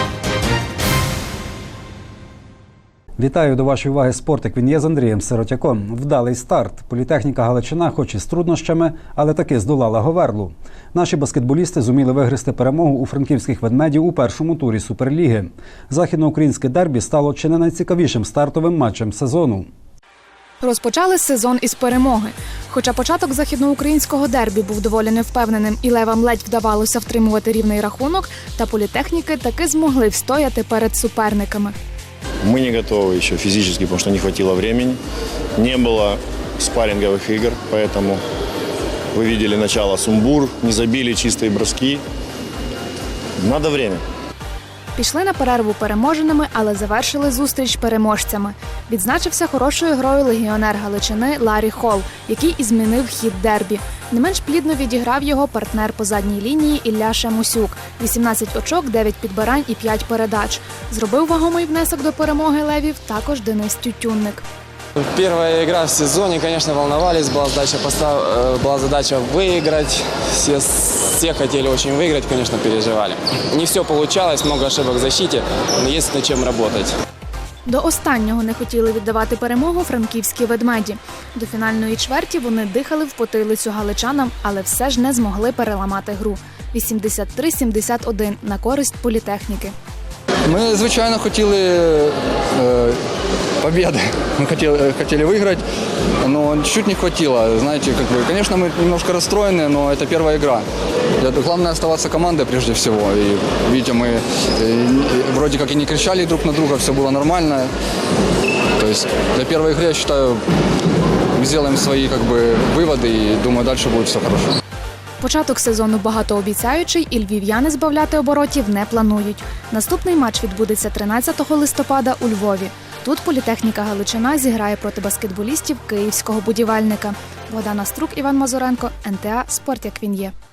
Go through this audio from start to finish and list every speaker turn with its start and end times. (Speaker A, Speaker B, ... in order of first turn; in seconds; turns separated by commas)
Speaker A: 3.2-19.7, Speaker B: 20.6-31.8, Speaker C: 32.4-35.0, Speaker C: 35.6-38.2, Speaker C: 39.1-42.0, Speaker C: 43.4-44.0, Speaker B: 45.0-64.4, Speaker D: 65.0-76.9, Speaker B: 77.7-89.7, Speaker E: 90.5-93.0, Speaker E: 93.6-95.6, Speaker E: 96.2-100.7, Speaker E: 101.2-107.7, Speaker E: 108.8-110.4, Speaker E: 111.4-114.6, Speaker B: 115.2-130.3